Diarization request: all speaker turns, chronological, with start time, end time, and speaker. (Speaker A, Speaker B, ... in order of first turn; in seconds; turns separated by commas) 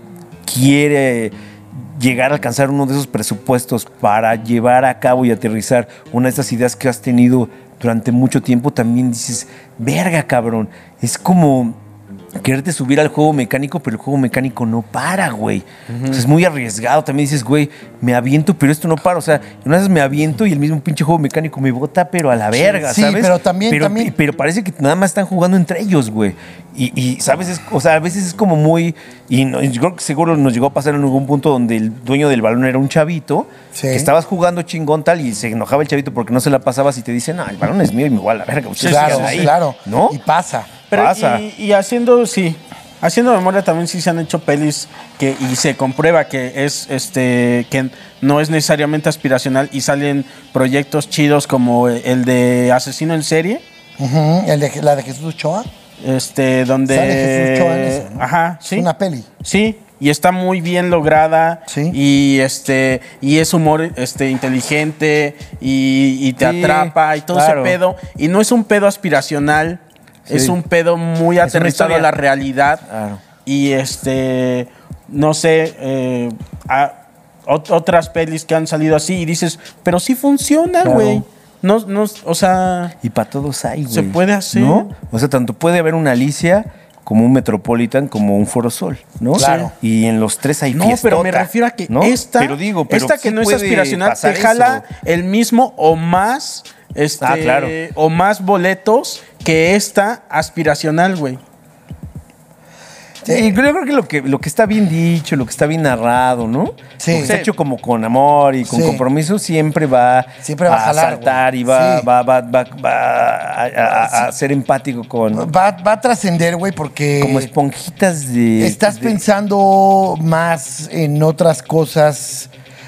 Speaker A: 0.5-11.8, Speaker A: 12.4-40.2, Speaker B: 15.9-16.2, Speaker C: 22.6-24.1, Speaker C: 33.7-34.1, Speaker B: 38.8-39.5, Speaker C: 38.8-40.7, Speaker B: 40.9-53.6, Speaker A: 40.9-41.4, Speaker C: 54.0-55.7, Speaker B: 56.0-58.9, Speaker C: 56.9-59.3, Speaker B: 59.4-72.8, Speaker C: 61.7-62.0, Speaker A: 66.4-67.8, Speaker A: 70.3-70.6, Speaker A: 71.4-72.1, Speaker A: 72.9-73.2, Speaker B: 73.5-83.0, Speaker A: 80.8-81.2, Speaker A: 83.0-94.9, Speaker B: 83.9-84.9, Speaker C: 89.3-89.7, Speaker B: 89.4-89.7, Speaker B: 90.7-101.4, Speaker A: 97.2-97.8, Speaker A: 103.2-115.5, Speaker C: 107.0-107.4, Speaker B: 107.2-107.5, Speaker C: 108.7-109.0, Speaker C: 110.4-112.1, Speaker C: 113.9-114.3, Speaker C: 115.3-117.5, Speaker A: 117.2-119.2, Speaker C: 118.6-122.5